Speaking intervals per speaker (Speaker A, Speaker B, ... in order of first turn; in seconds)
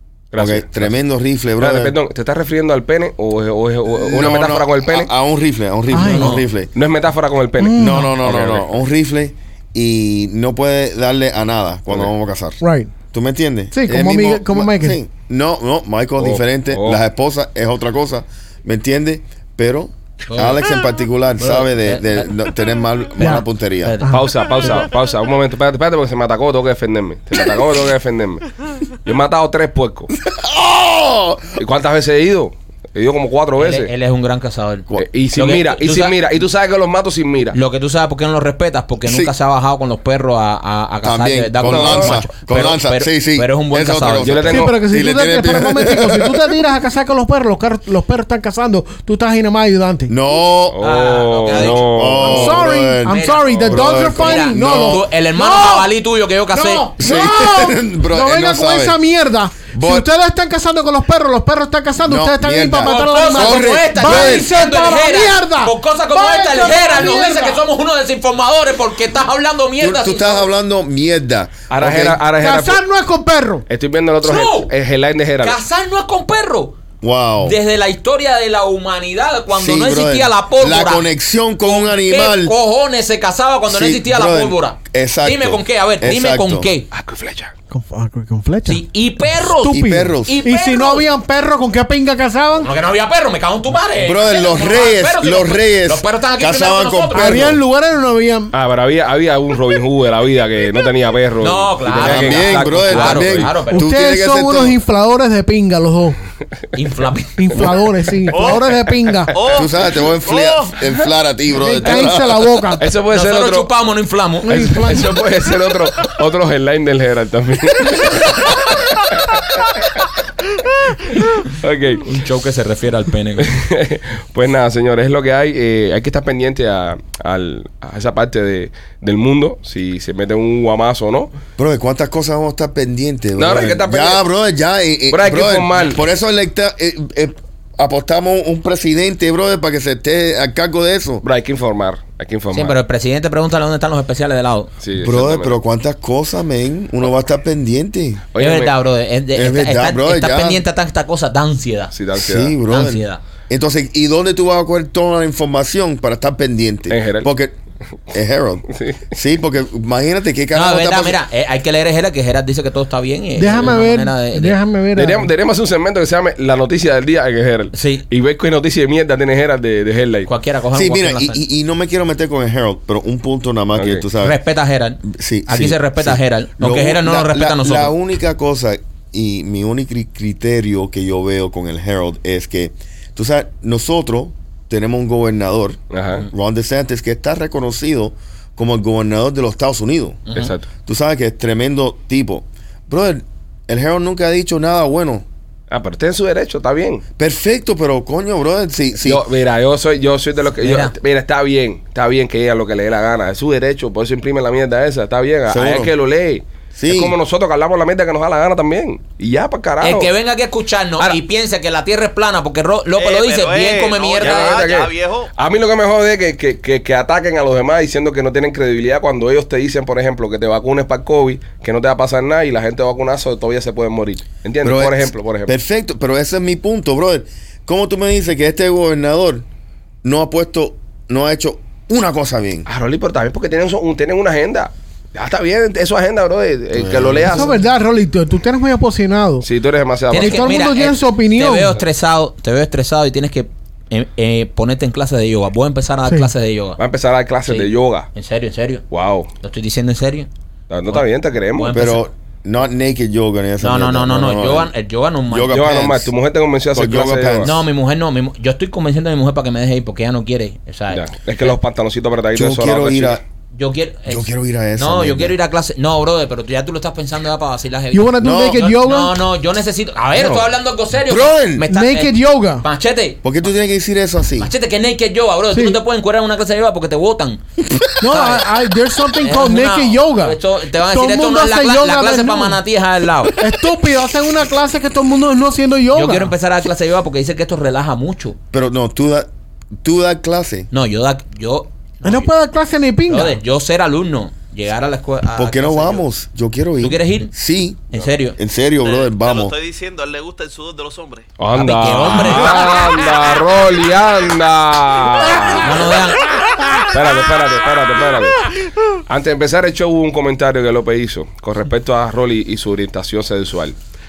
Speaker A: 0.3-1.0, 1.6-5.1, 6.7-8.8, 16.2-17.0, 24.1-28.4, 29.0-30.1, 31.6-33.9, 35.0-37.6, 41.6-42.2, 44.1-44.8, 50.7-52.4, 71.7-72.8, 73.7-75.6, 86.9-87.5, 98.5-103.5, 112.8-113.7, 114.5-120.0, 121.4-122.1, 123.4-131.3, 133.4-134.2, 135.1-136.0, 141.2-142.8, 144.8-145.6, 148.3-148.7, 151.9-152.6, 156.9-157.3, 158.7-159.1, 164.9-170.3, 173.8-174.0, 185.9-186.3, 190.3-190.7, 195.7-197.0, 199.0-210.1, 214.2-225.5, 232.7-237.5, 239.4-240.6, 246.8-248.1, 248.9-249.3, 250.7-251.7, 255.5-257.6, 260.9-263.2, 301.4-306.0, 306.9-308.5, 309.1-313.8
Speaker B: 0.4-1.9, 3.9-6.7, 7.8-12.6, 13.1-24.0, 30.2-31.6, 39.0-39.4, 41.0-46.5, 50.1-50.8, 51.5-55.1, 57.0-59.0, 59.7-60.1, 62.0-64.5, 69.8-72.2, 77.0-77.6, 79.5-82.5, 83.7-86.7, 89.7-90.4, 94.0-97.6, 101.9-104.8, 109.5-112.5, 131.6-141.2, 145.0-148.2, 149.3-150.6, 152.2-157.6, 158.1-161.2, 170.7-174.4, 175.1-190.2, 190.9-195.2, 197.2-199.2, 205.5-205.9, 206.8-207.2, 224.6-229.4, 230.0-232.7, 236.7-237.6, 251.7-254.7, 255.3-256.1, 256.7-257.6, 262.3-263.2, 264.1-265.4, 268.2-268.6, 270.2-270.5, 271.1-271.7, 273.2-274.5, 288.5-289.3, 289.8-290.7, 295.4-299.5
Speaker C: 5.9-6.4, 7.6-8.1, 12.6-12.9, 13.7-15.0, 23.2-23.4, 24.0-24.9, 44.5-50.1, 52.2-55.9, 56.5-67.6, 72.4-73.6, 87.7-88.8, 89.4-92.7, 97.1-98.5, 103.7-106.2, 107.4-109.3, 111.6-112.8, 114.4-115.2, 163.4-165.3, 237.3-239.5, 240.1-241.8, 267.9-269.2, 271.7-272.6, 275.5-275.8, 278.0-280.4, 280.9-282.6, 283.4-286.3, 292.0-293.4
Speaker D: 6.0-6.4, 20.3-20.7, 21.4-22.4, 23.8-24.8, 33.6-36.1, 37.5-44.7, 50.8-56.9, 62.8-70.5, 74.2-74.7, 75.4-76.8, 77.4-81.1, 81.6-86.9, 88.7-91.1, 92.6-97.6, 101.4-103.9, 106.7-107.8, 111.8-112.1, 113.1-114.6, 122.0-123.6, 142.5-144.7, 148.4-151.9, 152.7-153.2, 160.5-164.6, 167.7-168.1, 170.3-171.4, 174.2-177.9, 200.6-200.9, 209.8-214.5, 240.1-246.8, 247.5-248.8, 249.4-250.3, 251.6-252.0, 253.6-255.6, 257.4-261.5, 263.5-273.2, 274.4-277.4, 278.1-278.5, 279.2-283.4, 285.9-288.4, 290.7-292.3, 293.1-296.0, 296.8-297.3, 297.9-298.4, 301.5-302.7, 305.6-306.2
Speaker E: 108.3-108.7, 109.3-110.8, 213.0-215.3, 298.8-301.3